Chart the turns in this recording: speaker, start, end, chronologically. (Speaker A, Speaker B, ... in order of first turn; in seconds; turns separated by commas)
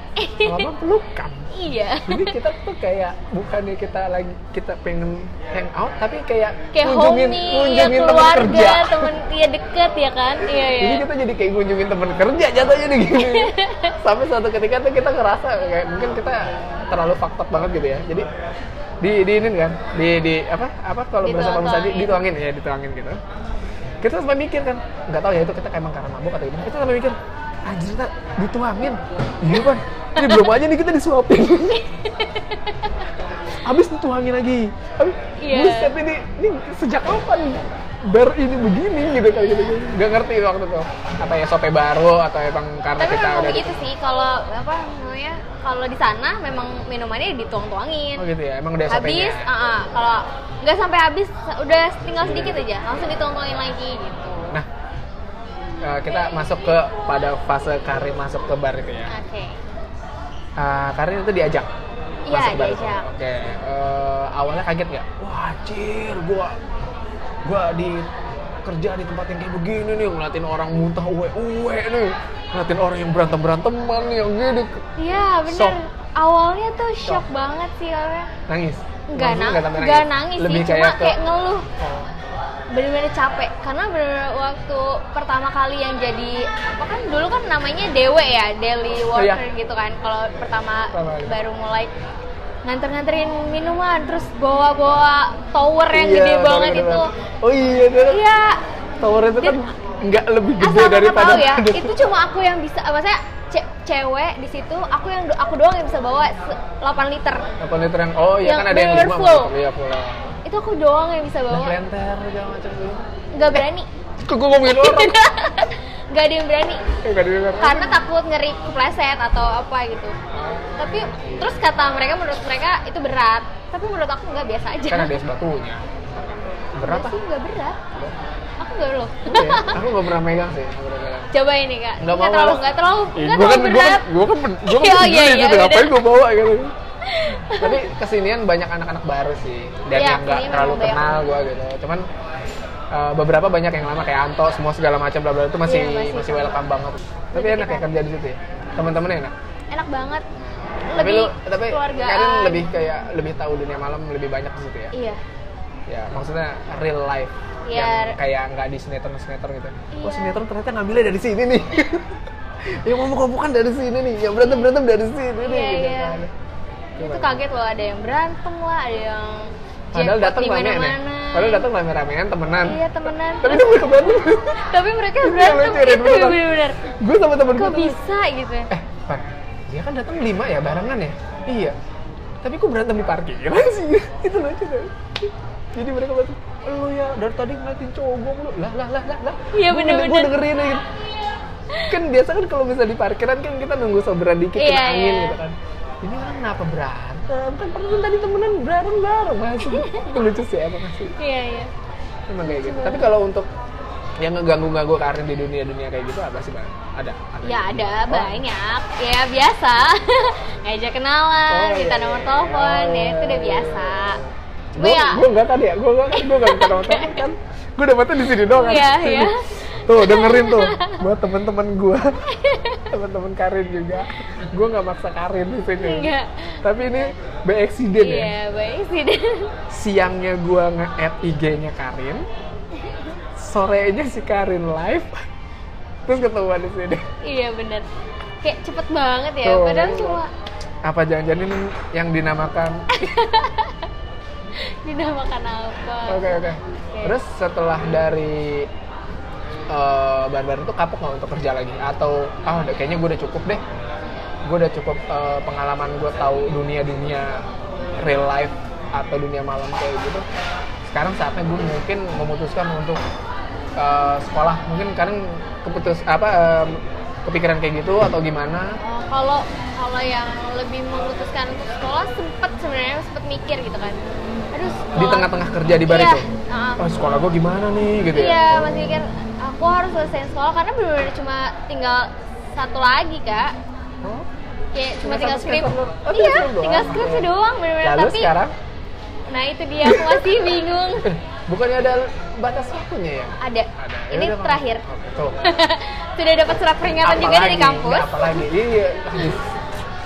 Speaker A: 0.2-0.7, Speaker B: 0.4-1.5, Speaker A: 1.5-2.4, Speaker B: 2.0-9.1, Speaker A: 6.7-11.0, Speaker B: 10.5-18.3, Speaker A: 13.1-13.9, Speaker B: 19.0-23.2, Speaker A: 21.2-22.2, Speaker B: 24.0-31.9, Speaker A: 30.2-30.5, Speaker A: 31.9-33.1, Speaker B: 33.6-43.9, Speaker A: 35.4-35.9, Speaker A: 43.0-48.2, Speaker B: 48.1-49.5, Speaker A: 48.9-54.6, Speaker B: 52.2-52.6, Speaker B: 55.8-59.1, Speaker A: 59.1-59.6, Speaker B: 60.6-61.7, Speaker A: 62.2-63.0, Speaker B: 62.3-66.6, Speaker B: 67.4-74.8, Speaker A: 75.0-78.3, Speaker B: 75.4-75.8, Speaker B: 78.5-81.2, Speaker A: 79.1-81.7, Speaker B: 81.8-82.1, Speaker A: 82.7-91.9, Speaker B: 89.1-89.4, Speaker B: 90.9-91.4, Speaker A: 92.6-97.1, Speaker B: 95.9-98.2, Speaker A: 98.1-99.6, Speaker B: 99.0-102.0, Speaker A: 100.6-107.5, Speaker B: 107.6-110.3, Speaker A: 108.4-109.5, Speaker A: 110.4-111.8, Speaker B: 111.5-113.6, Speaker A: 113.3-113.9, Speaker B: 114.2-115.2, Speaker A: 114.7-116.8, Speaker B: 117.0-118.0, Speaker A: 117.6-120.1, Speaker B: 120.3-121.5, Speaker A: 120.8-125.1, Speaker B: 124.9-127.2, Speaker A: 126.8-127.8, Speaker A: 128.6-130.0, Speaker B: 129.2-131.3, Speaker A: 131.3-134.1, Speaker B: 132.0-132.6, Speaker B: 133.2-136.7, Speaker A: 134.6-136.0, Speaker A: 137.0-137.9, Speaker B: 137.4-142.0, Speaker A: 139.9-141.2, Speaker B: 142.9-149.3, Speaker A: 145.6-146.8, Speaker A: 147.3-147.9, Speaker A: 149.7-150.2, Speaker B: 150.4-154.9, Speaker A: 150.9-152.7, Speaker A: 154.9-155.2, Speaker B: 155.9-162.2, Speaker A: 157.7-158.2, Speaker A: 159.9-160.4, Speaker B: 162.7-166.3, Speaker A: 165.4-166.2, Speaker B: 167.0-167.3, Speaker A: 167.0-171.7, Speaker B: 169.9-172.8, Speaker A: 172.6-176.8, Speaker B: 173.4-174.6, Speaker B: 175.2-178.0, Speaker A: 177.5-178.7, Speaker B: 178.7-181.7, Speaker B: 182.4-190.8, Speaker A: 189.5-190.4, Speaker B: 191.9-201.1, Speaker A: 194.6-195.3, Speaker A: 199.6-200.1, Speaker A: 201.2-201.7, Speaker B: 202.3-203.5, Speaker A: 202.4-203.1, Speaker B: 204.2-208.4, Speaker A: 207.4-214.2, Speaker B: 211.5-222.2, Speaker A: 214.7-215.3, Speaker A: 216.1-217.3, Speaker A: 218.5-221.0, Speaker A: 222.3-222.8, Speaker B: 222.9-226.1, Speaker A: 225.8-226.6, Speaker B: 226.6-228.3, Speaker A: 227.9-229.5, Speaker B: 229.7-232.2, Speaker A: 232.8-233.1, Speaker B: 233.4-235.2, Speaker B: 236.1-237.0, Speaker A: 237.2-237.9, Speaker A: 238.4-240.3, Speaker B: 239.4-240.2, Speaker B: 240.8-243.0, Speaker A: 242.9-243.9, Speaker A: 244.6-247.2, Speaker B: 246.1-248.7, Speaker B: 249.7-253.6, Speaker B: 254.4-257.4, Speaker B: 258.0-260.2, Speaker B: 260.9-263.0, Speaker B: 263.8-268.8, Speaker A: 268.8-274.0, Speaker A: 274.5-276.8, Speaker B: 274.9-276.2, Speaker B: 276.8-279.0, Speaker A: 278.1-283.5, Speaker A: 284.7-288.3, Speaker B: 285.0-287.3, Speaker B: 287.8-288.5, Speaker A: 289.3-291.1, Speaker B: 289.8-290.4, Speaker B: 291.0-295.4, Speaker A: 293.4-294.8, Speaker A: 295.4-298.4, Speaker B: 297.0-299.5